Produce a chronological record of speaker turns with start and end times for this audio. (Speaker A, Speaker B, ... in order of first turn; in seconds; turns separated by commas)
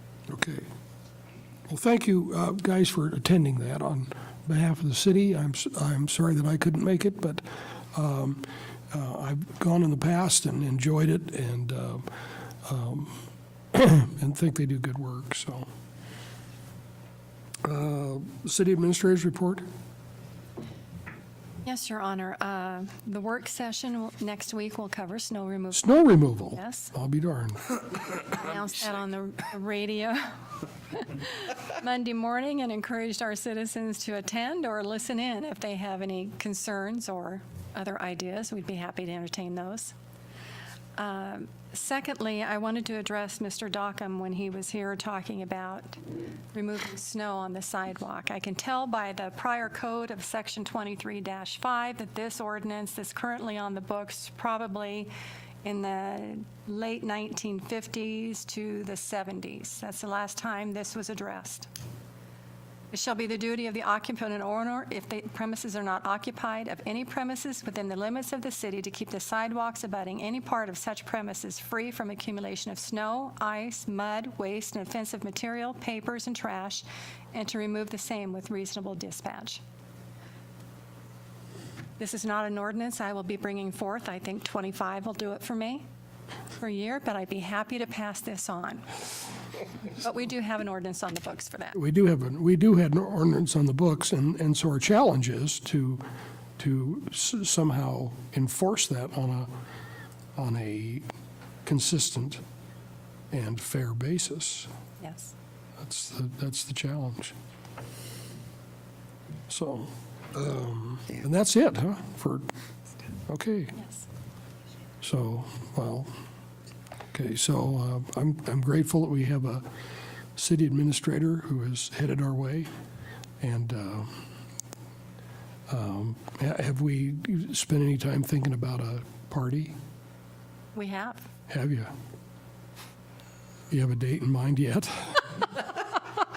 Speaker A: 0.3-0.7, Speaker A: 1.7-12.1, Speaker A: 12.7-13.2, Speaker A: 13.7-15.7, Speaker A: 17.6-19.6, Speaker B: 21.6-25.9, Speaker A: 25.7-27.8, Speaker B: 26.6-26.9, Speaker B: 28.2-30.4, Speaker B: 30.9-39.9, Speaker B: 41.0-46.0, Speaker B: 46.5-55.1, Speaker B: 55.6-61.7, Speaker B: 62.9-79.6, Speaker B: 82.0-85.8, Speaker B: 86.6-89.2, Speaker B: 89.9-91.8, Speaker A: 91.8-96.0, Speaker A: 96.6-99.5, Speaker A: 100.4-101.1, Speaker A: 101.7-102.4, Speaker A: 103.3-104.7, Speaker B: 105.0-105.3, Speaker A: 105.8-107.3, Speaker A: 109.5-112.5, Speaker A: 113.3-113.8, Speaker B: 113.8-114.1, Speaker A: 115.0-116.1, Speaker A: 117.1-119.7, Speaker A: 120.4-122.7, Speaker A: 123.4-124.2, Speaker A: 125.7-129.8, Speaker B: 130.7-131.3, Speaker A: 131.5-131.9, Speaker A: 133.7-135.5